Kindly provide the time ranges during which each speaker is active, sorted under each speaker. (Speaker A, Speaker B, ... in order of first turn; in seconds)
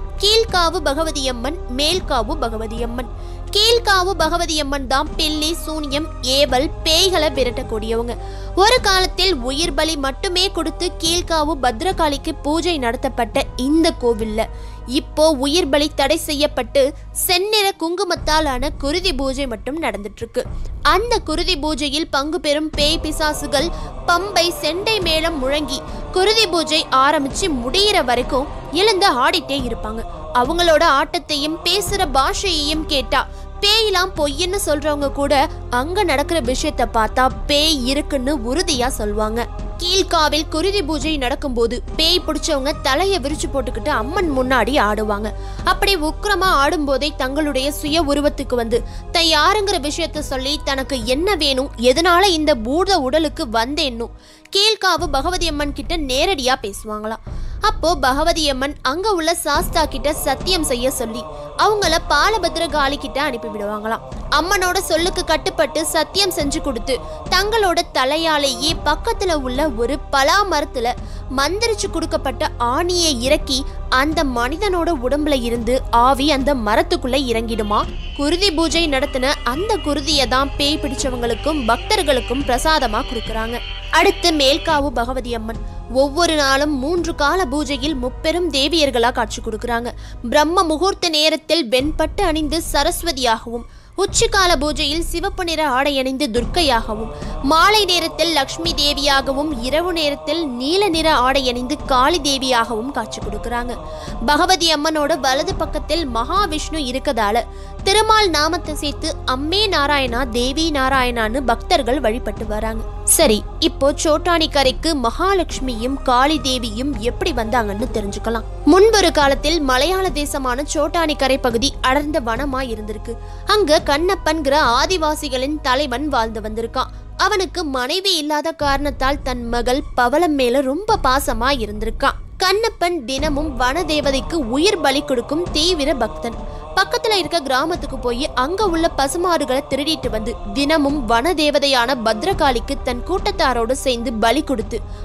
Speaker A: 0.2-103.7, 104.3-144.8